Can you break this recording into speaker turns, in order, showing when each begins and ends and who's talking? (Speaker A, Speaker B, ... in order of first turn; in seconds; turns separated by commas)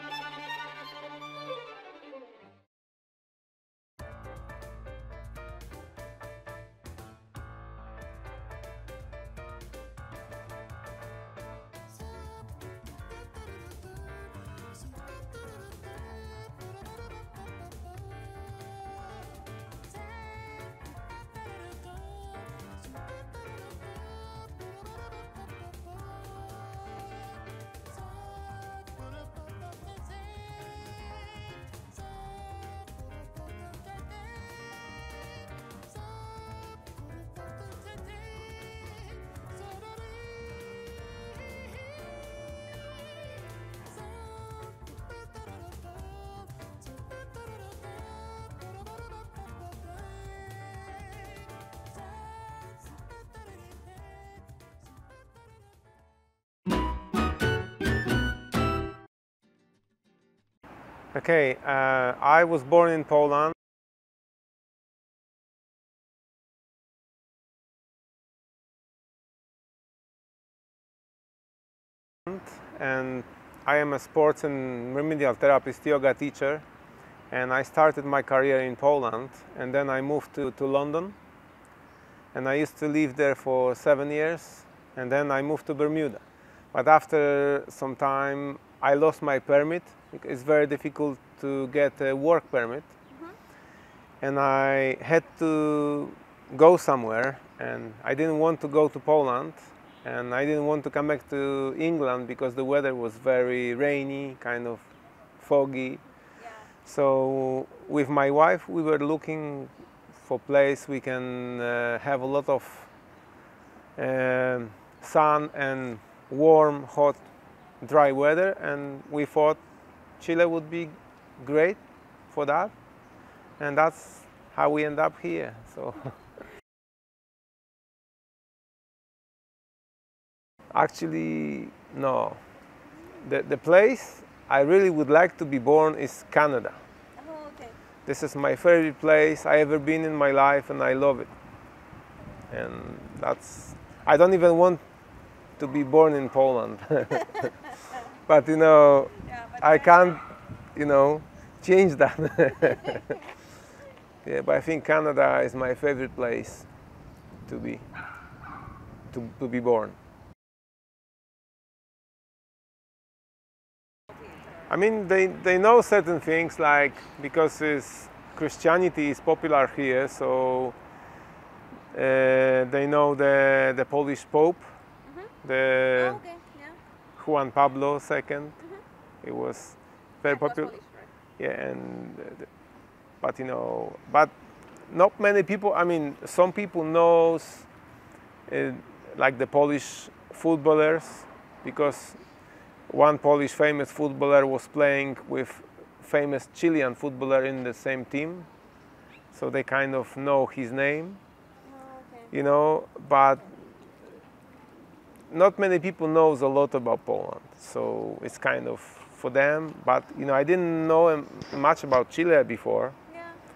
Speaker A: 61.1-63.5, Speaker A: 72.3-76.6, Speaker A: 77.3-81.2, Speaker A: 82.3-92.9, Speaker A: 94.2-104.9, Speaker A: 105.4-106.0, Speaker B: 106.4-106.7, Speaker A: 106.8-112.9, Speaker A: 114.0-117.3, Speaker A: 117.8-119.6, Speaker A: 120.2-122.7, Speaker A: 123.6-126.2, Speaker A: 130.7-132.4, Speaker A: 133.2-136.8, Speaker B: 137.2-137.8, Speaker A: 138.1-141.3, Speaker A: 142.5-144.8, Speaker A: 145.6-147.3, Speaker A: 148.3-150.2, Speaker B: 149.2-150.2, Speaker A: 150.8-153.1, Speaker A: 154.2-156.7, Speaker A: 157.5-157.9, Speaker A: 159.1-160.0, Speaker A: 164.7-170.8, Speaker A: 171.9-174.7, Speaker B: 175.0-175.3, Speaker A: 175.4-176.2, Speaker B: 175.9-176.8, Speaker A: 177.2-178.6, Speaker A: 179.2-180.8, Speaker B: 180.2-181.1, Speaker A: 181.4-182.5, Speaker A: 183.2-184.3, Speaker A: 184.8-187.7, Speaker A: 188.5-192.2, Speaker A: 192.9-198.5, Speaker A: 199.3-201.2, Speaker B: 201.6-202.3, Speaker A: 202.3-203.5, Speaker A: 205.3-213.0, Speaker B: 213.1-213.4